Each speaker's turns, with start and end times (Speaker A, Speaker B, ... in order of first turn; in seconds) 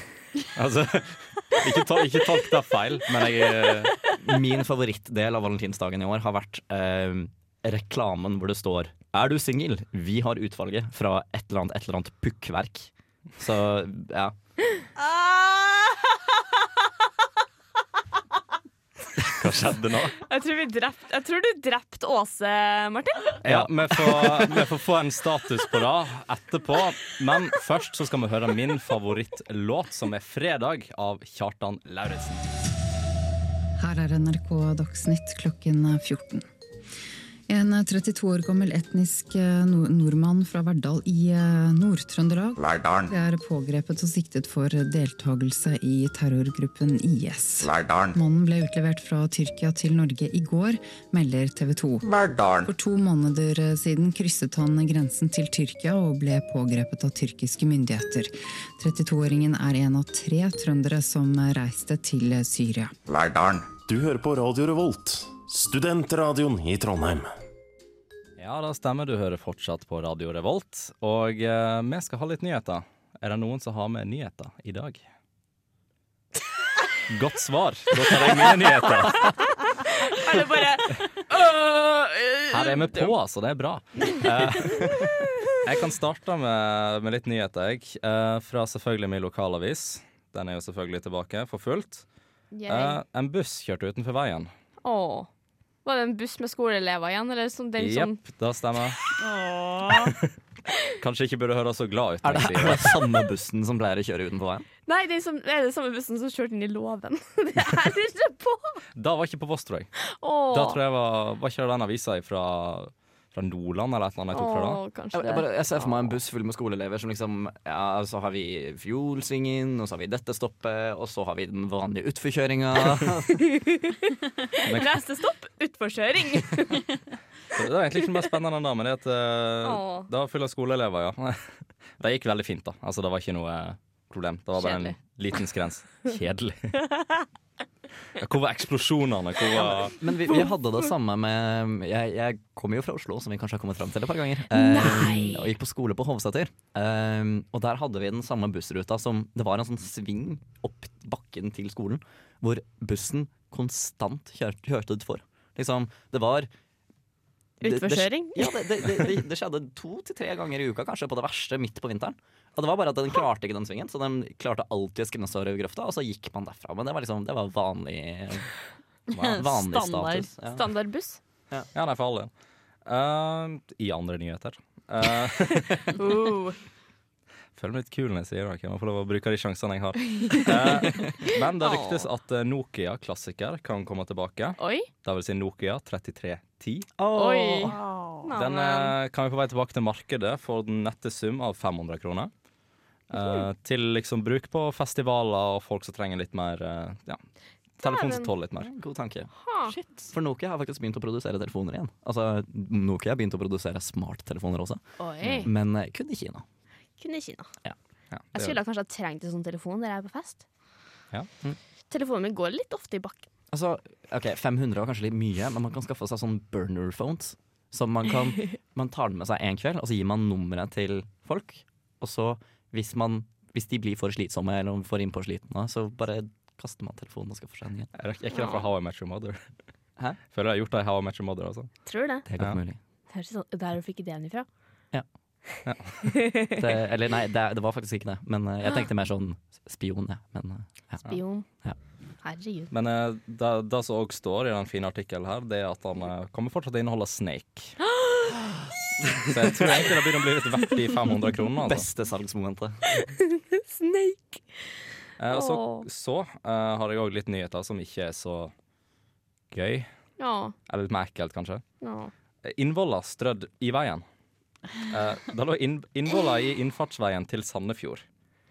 Speaker A: 0.5-4.0, 19.2-20.2, 23.4-32.5, 68.4-75.0, 77.1-79.5, 82.5-92.0, 92.7-94.5, 97.8-99.0, 101.0-103.0, 109.0-109.9, 110.5-114.8, 124.6-124.9, 127.5-136.8, 138.2-139.9, 171.7-172.3, 172.9-176.0, 177.6-186.9, 188.3-192.3, 193.1-197.2, 197.8-198.7, 208.1-208.6, 227.9-229.4, 230.3-231.7, 235.6-236.2, 242.7-247.8, 249.3-251.9, 255.2-258.5, 259.5-259.9, 260.7-261.6, 262.4-264.1, 264.8-268.0
Speaker B: 4.2-14.3, 23.4-23.7, 24.3-24.5, 102.2-104.7, 115.1-123.4, 139.6-156.5, 157.6-168.5, 169.2-170.6, 187.0-187.7, 198.6-199.3, 200.1-204.8, 205.4-206.4, 213.5-227.9, 232.3-232.8, 236.6-241.1, 249.1-249.7, 251.6-252.9
Speaker C: 15.0-16.1, 99.2-100.1, 169.1-170.3, 187.6-188.3, 199.7-200.1
Speaker D: 20.2-23.4, 79.8-83.1, 92.5-93.0, 94.8-95.3, 95.8-98.2, 104.9-108.8, 110.1-110.8, 114.3-115.5, 123.5-126.8, 129.6-130.1, 134.6-134.9, 144.5-145.5, 157.6-158.7, 170.6-171.2, 176.0-176.6, 181.6-182.1, 184.6-184.9, 187.1-188.9, 193.1-193.4, 197.8-198.3, 199.4-199.8, 205.0-205.5, 207.0-207.5, 208.3-210.4, 211.9-213.3, 228.3-228.6, 231.9-232.2, 233.1-234.5, 241.1-241.5, 242.2-242.7, 248.0-248.3, 252.9-254.4, 255.3-255.9, 260.2-260.6, 261.8-262.1
Speaker E: 33.8-36.5, 37.5-62.9
Speaker F: 42.6-43.1, 47.6-48.1, 52.1-52.6, 63.1-67.3